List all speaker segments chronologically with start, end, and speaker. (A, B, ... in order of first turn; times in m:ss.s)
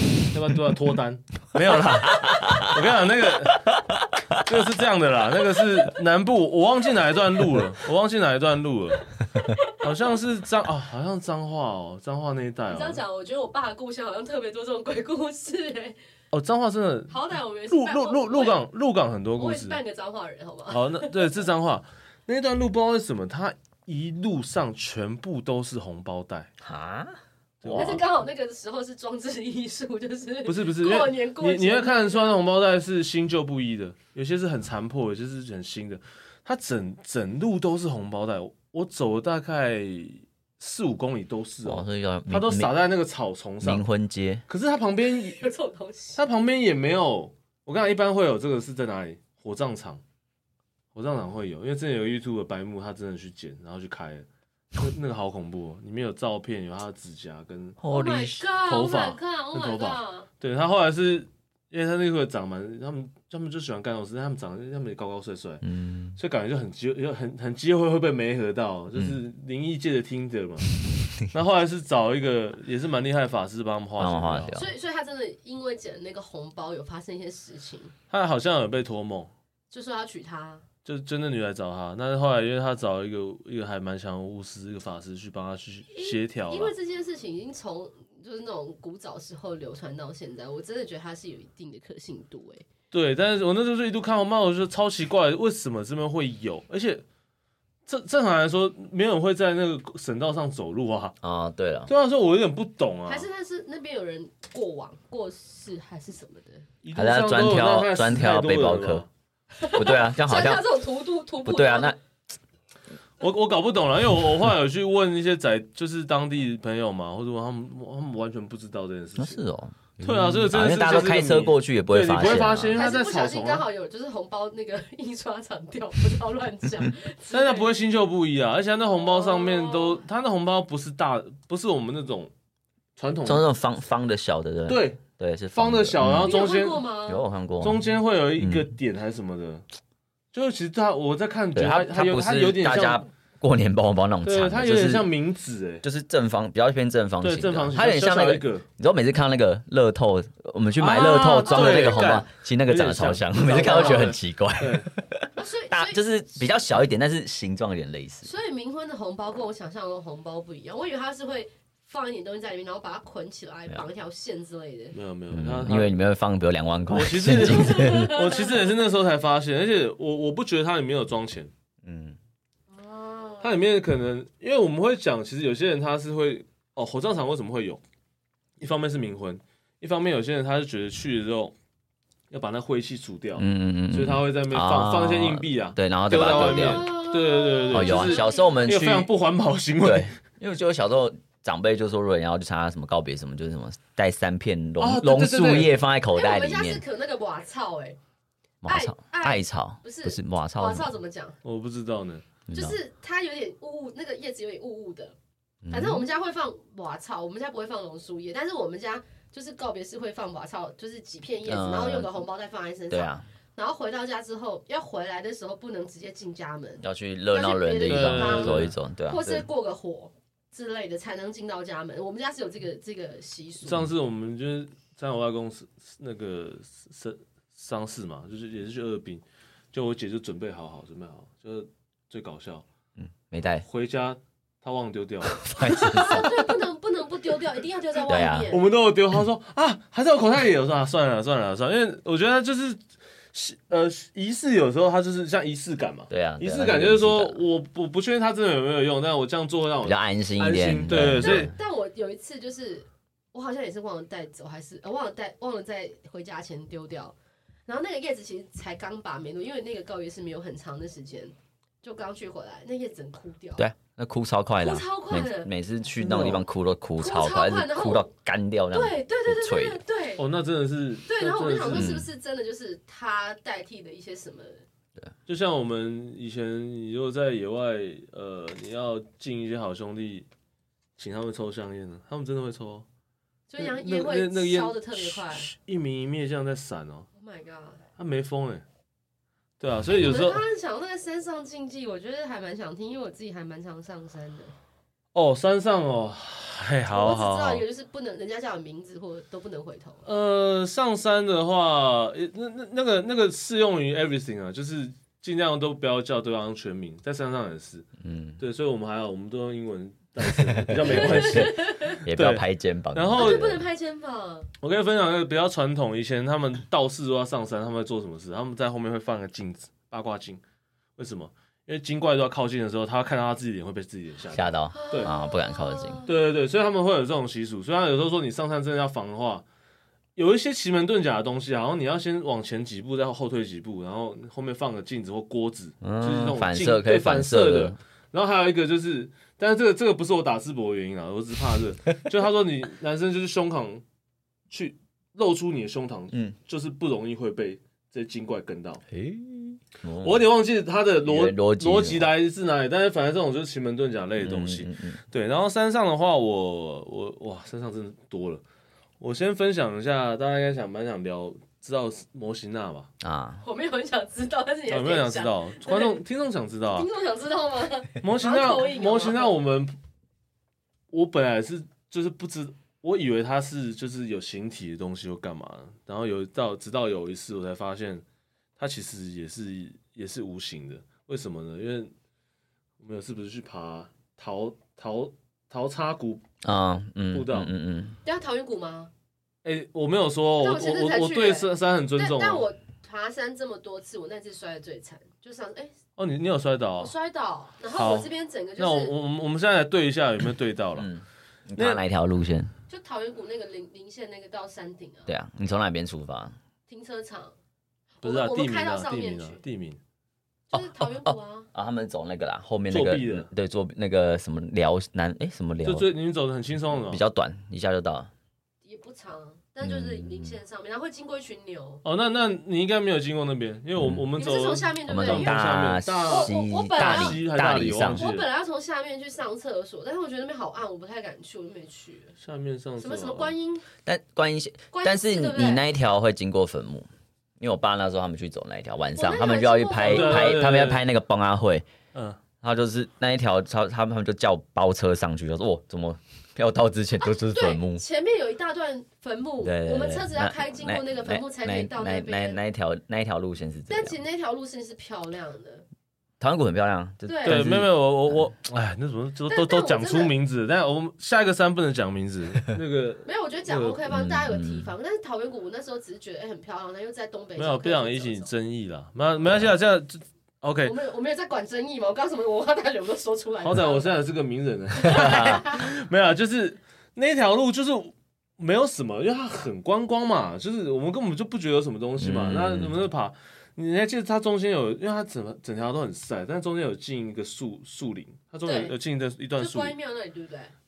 0:00.2-0:03.8 A
0:02.1-0:02.7 B
0:03.8-0:04.4 B
0:04.3-0:09.1 A
0:09.4-0:10.1 C
0:09.7-0:13.0 A
0:12.7-0:16.0 C
0:16.3-0:19.8 A
0:17.1-0:18.6 C
0:19.4-0:21.3 C
0:20.7-0:26.5 A
0:26.6-0:28.0 B
0:27.6-0:28.0 A
0:27.7-0:32.3 C
0:30.4-0:43.8 A
0:41.6-0:42.7 B
0:43.6-0:44.4 B
0:44.5-0:45.4 A
0:45.0-0:46.2 C
0:46.2-0:50.0 A
0:50.9-0:57.8 A
0:57.8-0:58.4 B
0:57.9-1:00.3 C
0:58.6-1:05.6 A
1:05.6-1:06.2 B
1:06.2-1:10.7 A
1:11.3-1:14.6 A
1:14.0-1:14.7 B
1:14.5-1:17.9 C
1:18.1-1:19.3 A
1:19.7-1:20.6 C
1:20.8-1:26.7 A
1:25.9-1:32.6 C
1:32.9-1:37.0 A
1:37.8-1:41.1 A
1:41.2-1:41.9 B
1:41.9-1:43.3 A
1:43.1-1:46.7 C
1:46.8-1:49.1 A
1:46.9-1:49.0 B
1:49.6-1:52.0 C
1:49.7-1:50.6 B
1:51.4-1:52.0 B
1:53.2-1:59.4 A
1:59.2-2:02.8 B
2:00.0-2:03.6 A
2:02.2-2:07.7 C
2:07.3-2:12.3 A
2:08.9-2:10.0 C
2:13.0-2:13.4 A
2:13.2-2:16.4 B
2:14.7-2:15.0 A
2:15.5-2:16.8 A
2:16.1-2:17.2 C
2:17.1-2:17.8 B
2:17.6-2:19.6 A
2:18.4-2:18.7 B
2:20.3-2:23.0 A
2:21.5-2:25.1 B
2:24.2-2:25.8 A
2:25.8-2:38.3 B
2:27.2-2:28.6 A
2:30.8-2:34.9 A
2:31.2-2:32.2 C
2:33.6-2:34.0 C
2:35.4-2:36.0 C
2:38.2-2:44.9 C
2:44.9-2:45.9 A
2:45.3-2:48.2 B
2:46.9-2:51.5 A
2:47.5-2:48.5 C
2:51.8-2:52.2 B
2:52.7-2:53.5 C
2:53.4-2:57.8 A
2:58.6-3:01.5 A
3:02.3-3:10.2 A
3:03.4-3:06.9 B
3:06.4-3:08.7 C
3:07.7-3:09.1 B
3:09.8-3:16.8 B
3:14.8-3:15.7 A
3:16.1-3:18.0 C
3:18.6-3:20.9 B
3:18.6-3:21.4 C
3:21.4-3:22.2 A
3:22.5-3:22.8 B
3:22.5-3:25.2 C
3:25.6-3:26.0 B
3:25.7-3:43.9 C
3:31.4-3:32.1 B
3:32.9-3:33.3 B
3:36.8-3:39.4 B
3:37.9-3:38.7 A
3:43.6-3:52.6 A
3:53.0-3:53.6 B
3:53.6-3:56.2 A
3:55.4-3:56.4 B
3:55.6-3:58.6 C
3:58.1-3:58.5 B
3:58.5-4:02.8 A
4:03.3-4:11.5 A
4:06.1-4:07.4 B
4:09.8-4:11.5 B
4:11.2-4:17.2 C
4:17.7-4:23.6 C
4:23.6-4:29.8 B
4:24.6-4:25.5 C
4:26.0-4:26.5 A
4:27.0-4:28.1 C
4:28.7-4:30.2 C
4:30.2-4:31.9 A
4:31.1-4:34.6 C
4:31.7-4:32.1 B
4:35.3-4:40.3 A
4:41.0-4:42.8 A
4:43.5-4:45.5 C
4:43.6-4:47.1 A
4:47.1-4:47.8 C
4:48.0-4:48.6 A
4:49.6-4:50.4 A
4:49.9-4:54.5 C
4:55.1-4:57.6 A
4:56.9-5:00.0 C
5:00.0-5:07.9 A
5:08.0-5:08.4 B
5:08.4-5:13.6 A
5:10.5-5:13.6 B
5:10.8-5:12.0 C
5:13.1-5:14.5 C
5:14.6-5:20.4 A
5:21.0-5:25.1 A
5:24.3-5:26.0 B
5:24.7-5:26.1 C
5:26.0-5:29.4 A
5:30.2-5:43.8 A
5:35.8-5:37.8 B
5:44.5-5:48.8 A
5:48.9-5:50.3 B
5:50.0-5:58.4 A
5:51.0-5:52.1 B
5:54.2-5:55.0 B
5:59.0-6:02.9 A
6:03.0-6:03.4 B
6:03.4-6:06.0 C
6:04.7-6:06.9 A
6:06.7-6:09.3 C
6:08.0-6:09.7 A
6:10.9-6:18.0 A
6:18.6-6:21.9 A
6:22.8-6:26.2 A
6:26.4-6:28.0 B
6:27.1-6:27.5 A
6:28.0-6:28.9 C
6:29.4-6:32.4 A
6:30.4-6:35.7 C
6:36.0-6:36.9 A
6:36.8-6:38.9 C
6:37.7-6:40.9 A
6:40.8-6:42.5 B
6:41.6-6:41.8 A
6:42.7-6:45.1 C
6:45.1-6:46.3 B
6:46.7-6:47.4 C
6:48.0-6:49.4 C
6:48.0-6:49.8 A
6:50.5-6:51.5 C
6:50.5-6:55.9 B
6:52.7-6:53.3 A
6:55.6-6:57.0 A
6:56.9-6:58.1 B
6:58.6-7:01.8 C
6:59.6-7:00.3 B
7:01.8-7:08.3 A
7:03.8-7:04.0 B
7:04.2-7:07.2 C
7:04.9-7:08.0 B
7:07.9-7:12.1 C
7:12.2-7:13.3 A
7:12.8-7:13.6 C
7:13.8-7:16.9 B
7:14.7-7:15.6 C
7:17.4-7:21.6 B
7:18.9-7:20.4 C
7:19.8-7:20.8 A
7:21.9-7:22.2 A
7:22.4-7:27.8 B
7:27.0-7:32.4 C
7:29.4-7:34.0 B
7:33.7-7:35.6 C
7:36.2-7:38.2 B
7:37.0-7:37.4 C
7:37.2-7:43.8 A
7:39.3-7:40.1 C
7:43.0-7:48.3 C
7:43.9-7:44.7 B
7:47.4-7:50.8 A
7:50.6-7:53.9 C
7:53.4-8:09.8 A
7:54.8-7:55.7 C
7:55.0-7:55.3 B
8:02.0-8:02.8 B
8:08.4-8:08.7 C
8:09.4-8:10.5 C